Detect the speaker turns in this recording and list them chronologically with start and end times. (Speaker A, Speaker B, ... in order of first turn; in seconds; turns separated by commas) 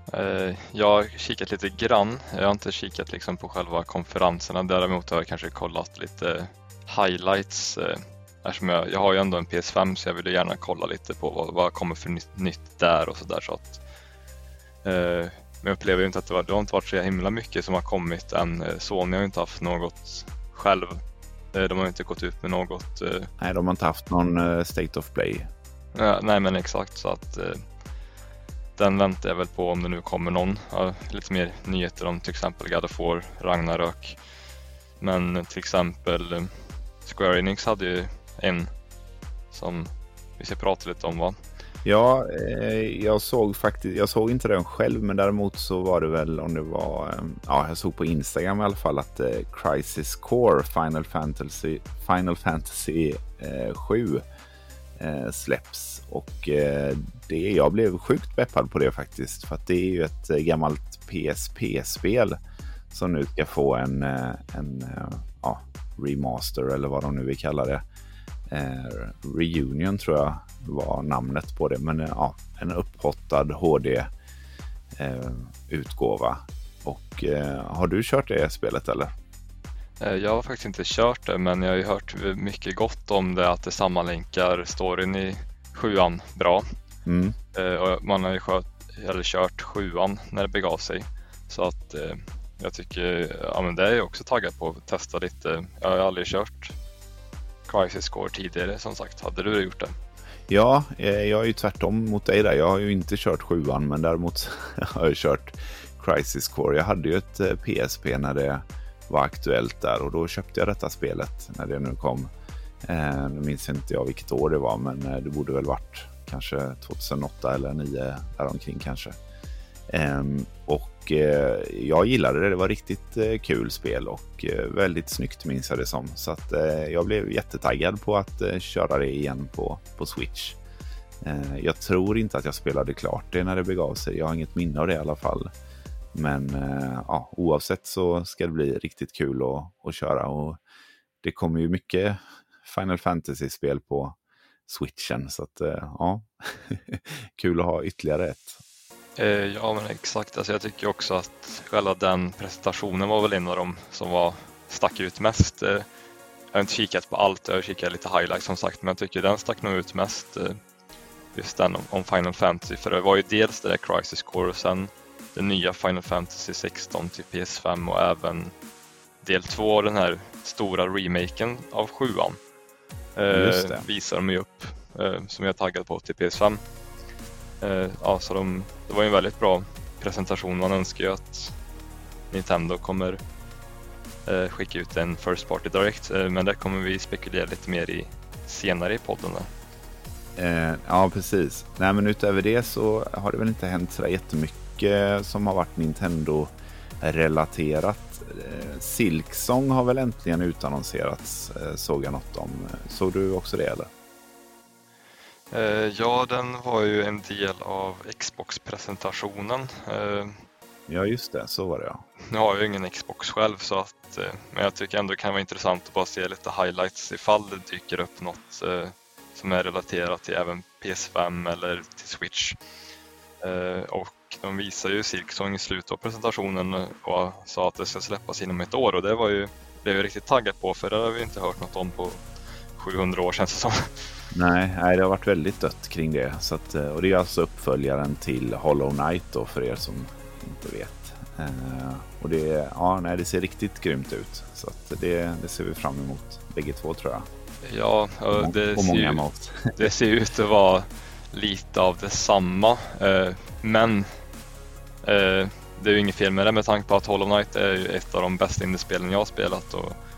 Speaker A: 0.1-13.8, Speaker A: 14.8-21.0, Speaker A: 21.5-23.3, Speaker B: 23.4-25.5, Speaker A: 25.9-27.6, Speaker A: 28.8-34.2, Speaker A: 35.0-38.7, Speaker A: 39.5-41.4, Speaker B: 41.9-54.2, Speaker B: 55.0-62.4, Speaker B: 62.9-67.8, Speaker B: 68.5-74.1, Speaker B: 74.9-79.1, Speaker A: 80.0-86.7, Speaker B: 87.1-87.4, Speaker A: 87.5-96.8, Speaker A: 97.7-100.0, Speaker B: 100.5-112.3, Speaker B: 112.8-119.2, Speaker B: 119.9-130.6, Speaker B: 131.2-135.5, Speaker B: 136.1-140.6, Speaker B: 141.2-144.2, Speaker B: 144.7-148.6, Speaker A: 149.2-155.9, Speaker A: 156.5-160.6, Speaker A: 161.3-168.5, Speaker A: 169.2-172.4, Speaker A: 173.2-176.6, Speaker B: 173.3-173.9, Speaker A: 177.6-181.6, Speaker A: 182.3-183.2, Speaker A: 184.3-189.5, Speaker B: 190.4-203.9, Speaker A: 205.5-210.4, Speaker B: 210.9-212.1, Speaker A: 212.3-222.6, Speaker A: 223.4-232.3, Speaker A: 232.8-234.1, Speaker B: 234.3-247.3, Speaker A: 247.6-249.2, Speaker B: 248.3-249.9, Speaker A: 249.8-254.2, Speaker A: 255.0-260.0